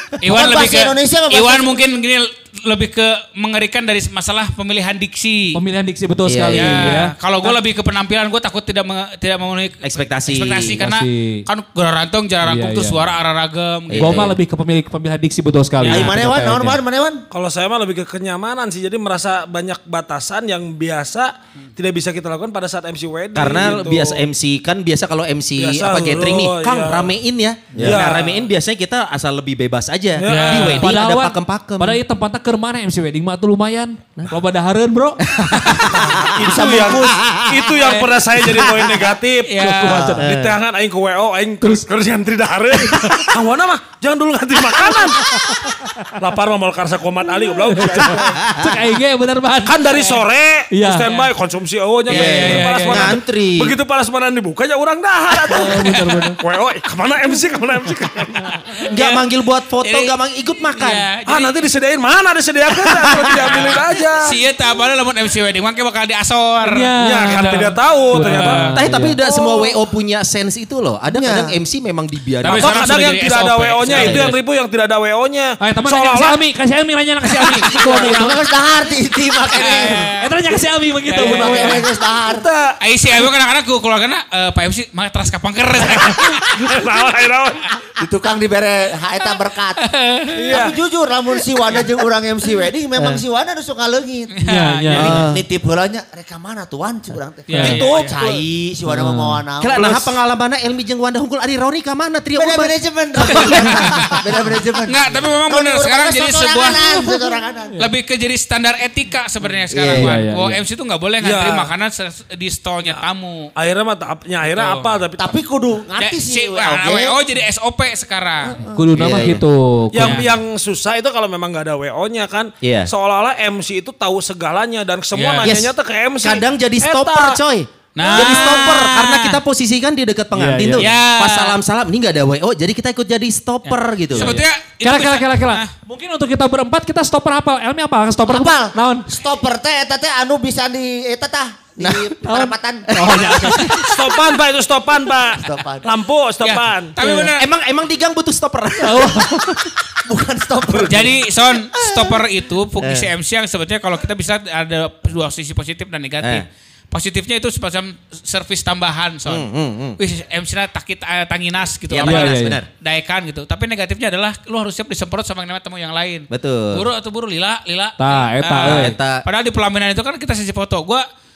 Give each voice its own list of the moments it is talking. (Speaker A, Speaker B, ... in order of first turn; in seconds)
Speaker A: 0.2-5.5, 6.5-14.3, 15.8-16.1, 30.2-30.9, 39.5-40.1, 52.1-53.1, 55.5-56.3, 58.8-59.2, 59.8-60.1, 60.7-61.6, 63.2-68.7, 72.4-74.3, 79.5-80.3, 81.1-81.8, 82.8-86.8, 89.8-90.6, 94.3-95.2, 97.5-98.2, 103.2-104.1, 104.9-107.2, 107.8-113.5, 114.5-114.9, 116.0-118.6, 120.0-120.3, 125.1-125.6, 127.9-129.4, 130.8-131.6, 133.7-135.7, 146.4-147.4, 150.9-171.0
Speaker B: 0.2-1.8, 15.9-17.2, 36.2-37.9, 39.9-40.3, 69.2-69.6, 71.1-71.5, 77.7-80.1, 81.1-82.5, 88.0-89.8, 90.5-94.3, 94.9-100.1, 102.4-107.7, 109.7-110.1, 115.2-117.2, 118.5-119.3, 138.3-143.7, 145.3-146.0, 150.1-152.2
Speaker C: 5.5-7.5, 10.8-11.4, 12.4-13.1, 14.0-16.8, 30.6-35.2, 41.6-41.9, 42.8-43.1, 44.9-45.9, 47.7-50.0, 50.7-51.2, 52.4-53.1, 55.5-56.4, 66.6-69.2, 73.9-74.3, 75.6-78.3, 80.2-81.8, 94.4-95.2, 97.5-97.8, 98.9-99.4, 109.9-110.6, 118.7-120.3, 130.3-130.9, 134.2-139.1, 142.2-143.8, 147.0-147.3, 148.8-149.6, 162.0-162.6, 168.0-169.0
Speaker D: 6.2-7.0, 9.8-10.8, 13.9-14.4, 23.3-32.0, 35.2-36.2, 40.2-40.6, 48.2-48.8, 52.1-53.7, 58.9-61.0, 68.7-72.9, 73.9-74.2, 93.0-93.2, 94.9-95.4, 99.6-104.1, 109.8-110.0, 118.9-119.4, 122.6-122.9, 125.4-125.7, 126.2-134.4, 141.8-142.2, 142.9-143.7, 147.4-149.7, 152.8-153.1, 156.2-156.5, 159.2-160.0, 161.9-162.7, 166.3-166.8, 168.6-169.2
Speaker E: 17.3-24.2, 25.6-27.1, 27.8-28.4, 30.2-30.8, 35.9-45.3, 46.2-48.4, 49.6-58.8, 61.2-64.3, 67.0-68.8, 72.6-76.4, 77.4-78.3, 82.2-82.8, 85.9-87.7, 90.3-90.8, 97.7-98.4, 111.2-111.7, 113.5-115.4, 119.9-127.4, 143.7-146.9, 150.7-151.0